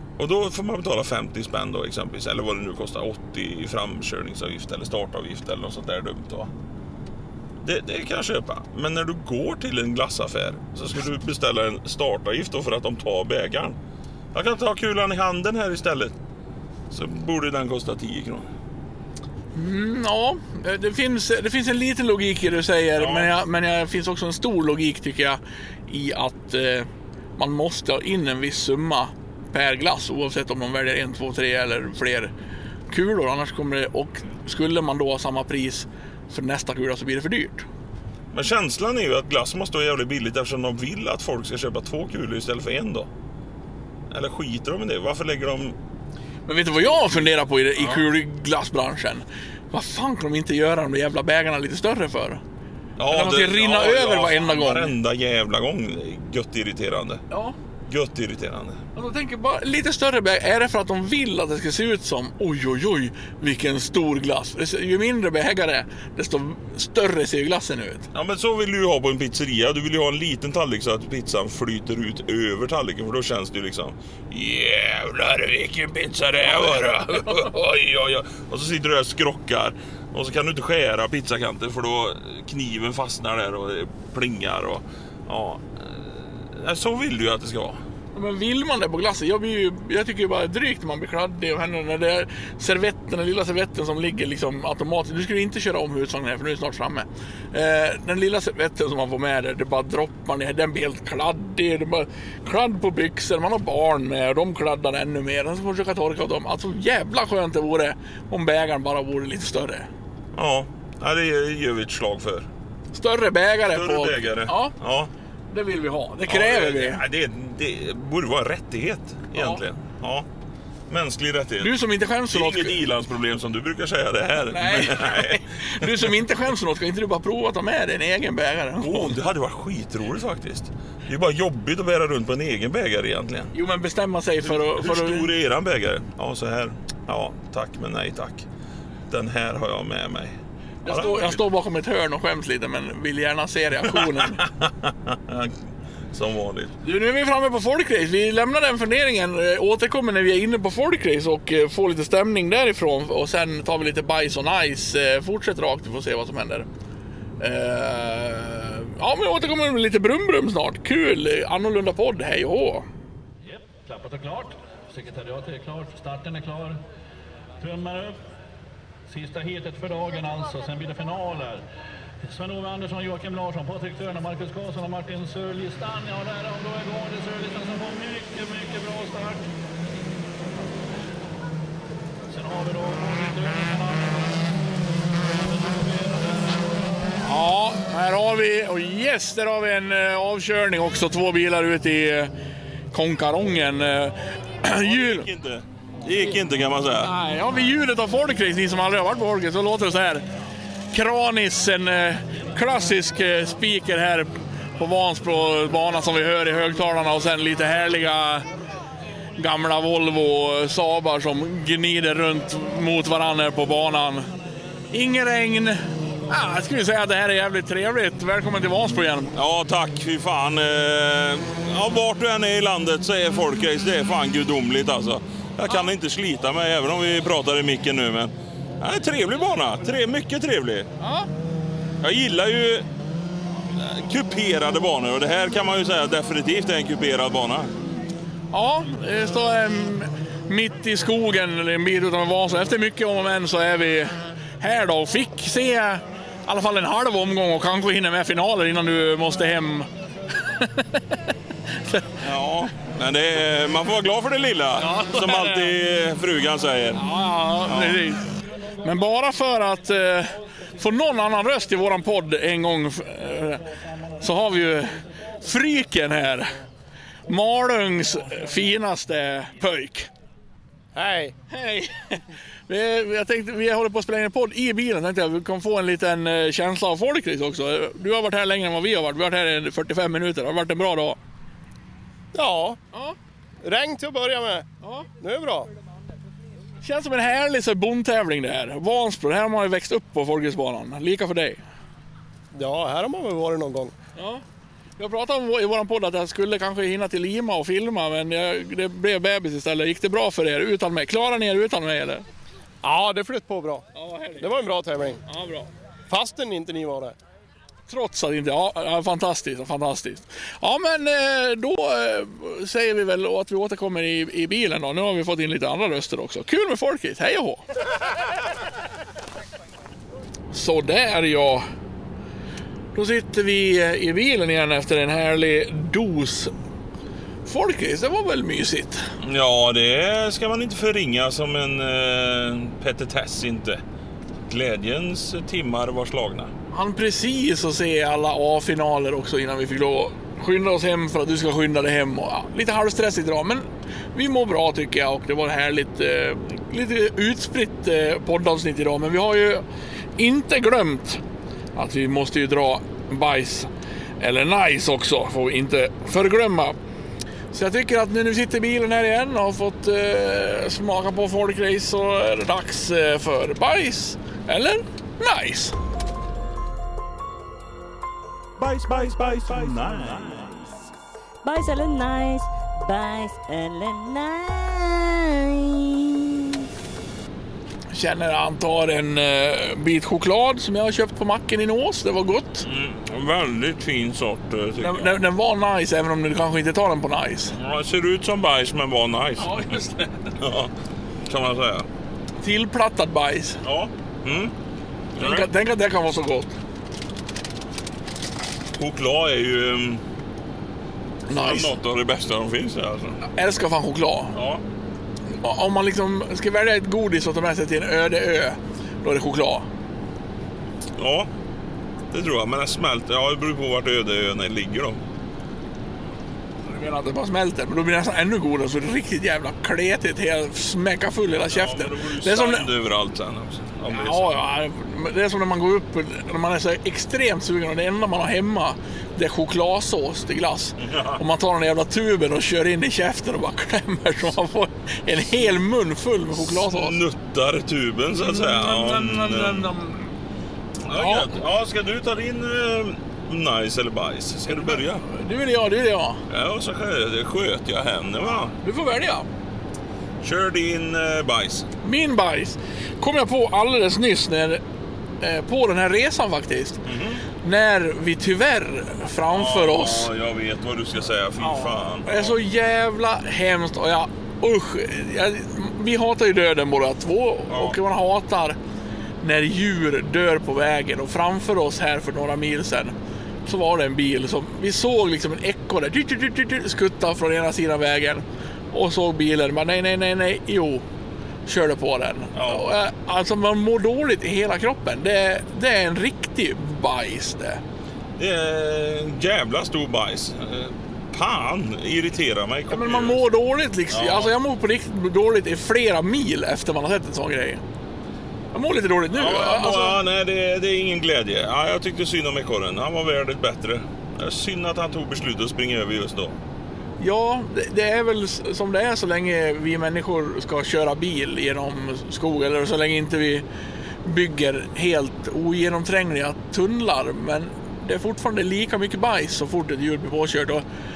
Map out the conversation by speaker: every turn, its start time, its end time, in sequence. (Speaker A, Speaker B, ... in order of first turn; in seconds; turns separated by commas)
Speaker A: 0.2-6.5, Speaker A: 7.6-13.8, Speaker A: 14.3-16.1, Speaker A: 16.9-18.5, Speaker B: 19.5-32.3, Speaker A: 23.0-23.3, Speaker B: 32.9-37.6, Speaker A: 38.3-43.1, Speaker A: 44.1-45.8, Speaker B: 46.5-52.4, Speaker A: 47.8-48.1, Speaker A: 53.0-57.2, Speaker B: 53.1-54.9, Speaker B: 57.3-57.5, Speaker A: 57.9-58.8, Speaker B: 58.9-68.1, Speaker A: 68.1-87.8, Speaker B: 88.1-109.9, Speaker A: 110.3-112.5, Speaker B: 112.9-114.7, Speaker A: 113.7-115.1, Speaker B: 115.5-117.0, Speaker A: 116.3-120.2, Speaker B: 119.3-119.6, Speaker A: 120.9-121.8, Speaker B: 121.6-122.8, Speaker A: 122.3-126.1, Speaker B: 124.5-129.2, Speaker A: 128.8-133.5, Speaker B: 133.5-135.3, Speaker A: 134.4-138.4, Speaker A: 139.1-141.4, Speaker B: 140.8-144.4, Speaker A: 143.9-145.6, Speaker A: 146.1-146.7, Speaker B: 146.8-156.7, Speaker B: 157.4-162.8, Speaker C: 163.5-166.8, Speaker C: 167.6-168.2, Speaker C: 169.1-171.6, Speaker C: 172.2-179.4, Speaker C: 180.0-180.6, Speaker C: 182.3-184.5, Speaker C: 185.3-186.7, Speaker B: 187.2-192.3, Speaker B: 192.9-195.3, Speaker A: 194.7-197.1, Speaker B: 197.0-200.2, Speaker B: 200.9-208.4, Speaker B: 209.4-214.2, Speaker B: 214.9-219.3, Speaker A: 219.3-230.9, Speaker B: 231.0-231.3, Speaker A: 232.0-232.8, Speaker A: 233.7-237.7, Speaker B: 238.5-251.2, Speaker B: 251.8-252.2, Speaker A: 252.2-257.0, Speaker B: 254.8-255.7, Speaker B: 256.9-263.6, Speaker A: 257.6-258.0, Speaker B: 264.2-266.5, Speaker B: 267.2-270.1, Speaker D: 270.9-271.3, Speaker B: 271.5-281.2, Speaker D: 282.3-282.8, Speaker D: 283.6-284.7, Speaker B: 284.8-285.1, Speaker D: 285.2-285.7, Speaker B: 286.8-291.6, Speaker D: 292.5-293.9, Speaker B: 294.1-294.4, Speaker B: 295.0-302.2, Speaker D: 302.8-303.8, Speaker B: 303.9-304.5, Speaker D: 304.4-305.2, Speaker B: 305.2-305.7, Speaker D: 306.1-307.1, Speaker B: 307.9-317.6, Speaker B: 320.5-321.6, Speaker B: 322.9-326.5, Speaker B: 327.4-329.1, Speaker A: 329.2-333.8, Speaker A: 334.5-336.5, Speaker B: 336.7-349.6, Speaker B: 350.2-351.2, Speaker B: 351.8-356.8, Speaker B: 357.5-365.8, Speaker A: 368.6-370.7, Speaker E: 371.4-376.6, Speaker B: 377.9-382.6, Speaker A: 382.6-385.2, Speaker B: 384.8-387.5, Speaker A: 387.5-389.8, Speaker B: 389.4-390.4, Speaker A: 390.4-390.7, Speaker A: 391.2-391.9, Speaker B: 392.4-393.6, Speaker A: 393.6-394.5, Speaker A: 395.1-395.5, Speaker B: 395.2-396.6, Speaker A: 398.7-400.0, Speaker B: 401.3-401.7, Speaker A: 401.3-403.2, Speaker B: 403.2-404.4, Speaker A: 404.3-404.6, Speaker B: 405.4-409.7, Speaker A: 411.0-411.3, Speaker A: 412.1-415.0, Speaker B: 416.6-422.7, Speaker A: 421.4-424.4, Speaker B: 423.9-437.0, Speaker A: 430.8-431.2, Speaker A: 436.3-439.7, Speaker B: 438.2-440.1, Speaker A: 440.8-445.0, Speaker B: 440.9-441.4, Speaker B: 444.5-446.2, Speaker A: 446.3-448.6, Speaker B: 448.6-449.3, Speaker A: 450.2-451.7, Speaker B: 451.8-454.6, Speaker B: 455.2-456.8, Speaker A: 456.8-457.2, Speaker B: 457.4-460.1, Speaker A: 459.3-462.4, Speaker B: 461.4-468.6, Speaker A: 467.5-467.8, Speaker B: 469.2-472.9, Speaker B: 473.4-480.8, Speaker B: 481.4-487.6, Speaker A: 482.3-482.7, Speaker A: 488.2-493.2, Speaker B: 492.7-497.6, Speaker A: 493.9-494.3, Speaker B: 498.5-500.0, Speaker A: 499.1-506.4, Speaker B: 507.0-513.4, Speaker B: 514.0-520.6